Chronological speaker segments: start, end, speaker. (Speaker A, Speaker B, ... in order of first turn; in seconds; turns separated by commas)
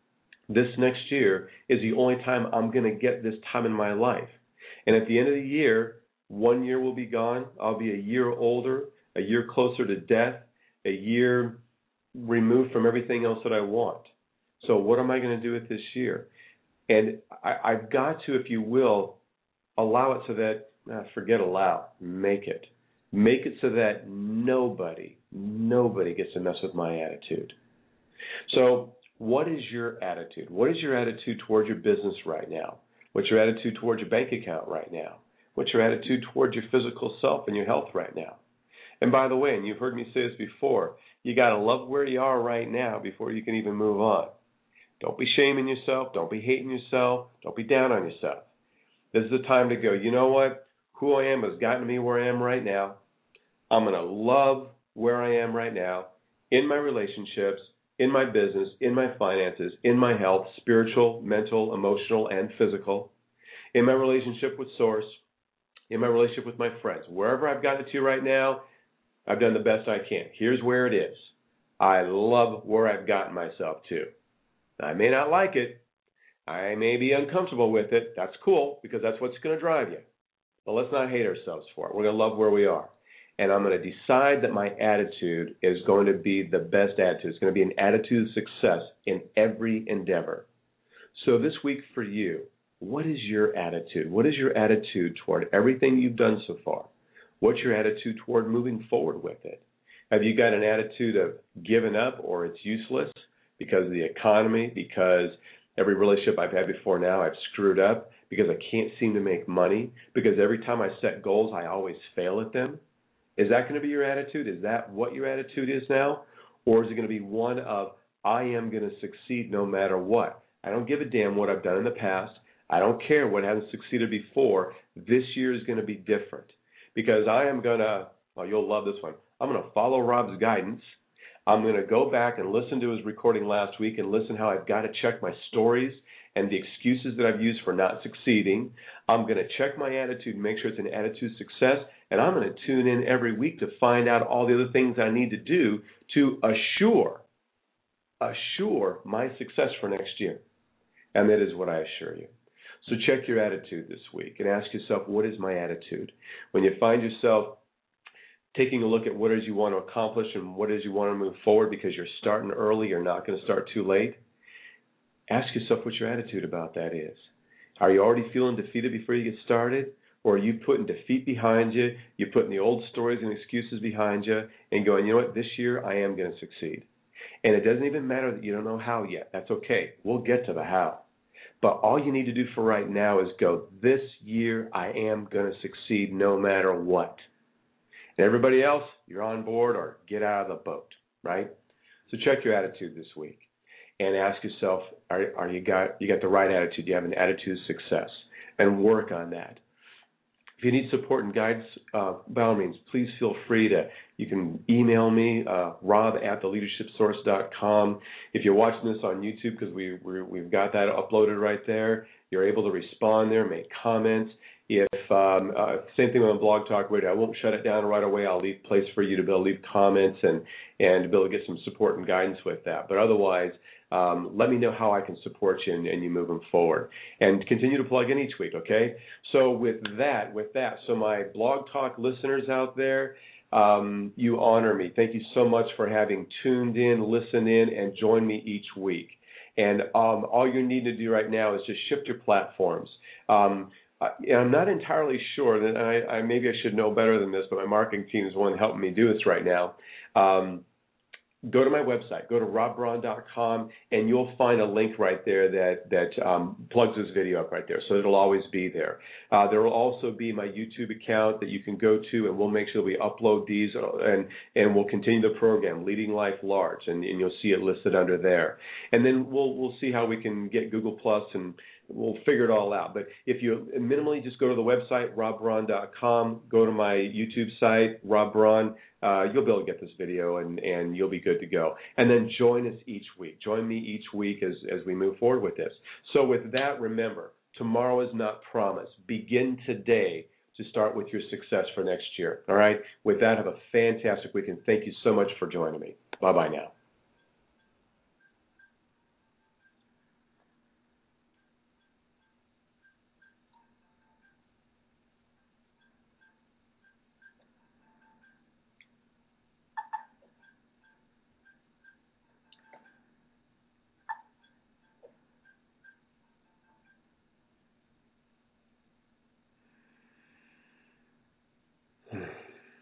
Speaker A: 0.5-11.6, Speaker A: 12.1-16.3, Speaker A: 16.9-19.2, Speaker A: 19.8-27.5, Speaker A: 28.5-38.4, Speaker A: 39.0-44.3, Speaker A: 45.0-48.5, Speaker A: 49.1-53.0, Speaker A: 53.7-63.1, Speaker A: 63.7-65.2, Speaker A: 65.9-68.6, Speaker A: 69.2-74.1, Speaker A: 74.8-75.8, Speaker A: 76.5-80.0, Speaker A: 80.6-90.5, Speaker A: 91.1-96.9, Speaker A: 97.4-112.8, Speaker A: 113.4-147.2, Speaker A: 148.2-150.4, Speaker A: 151.1-152.3, Speaker A: 152.8-157.6, Speaker A: 158.5-164.2, Speaker A: 165.3-176.9, Speaker A: 177.4-181.0, Speaker A: 181.6-187.2, Speaker A: 188.2-191.5, Speaker A: 192.1-199.6, Speaker A: 200.6-250.6, Speaker A: 251.4-296.7, Speaker A: 322.1-322.4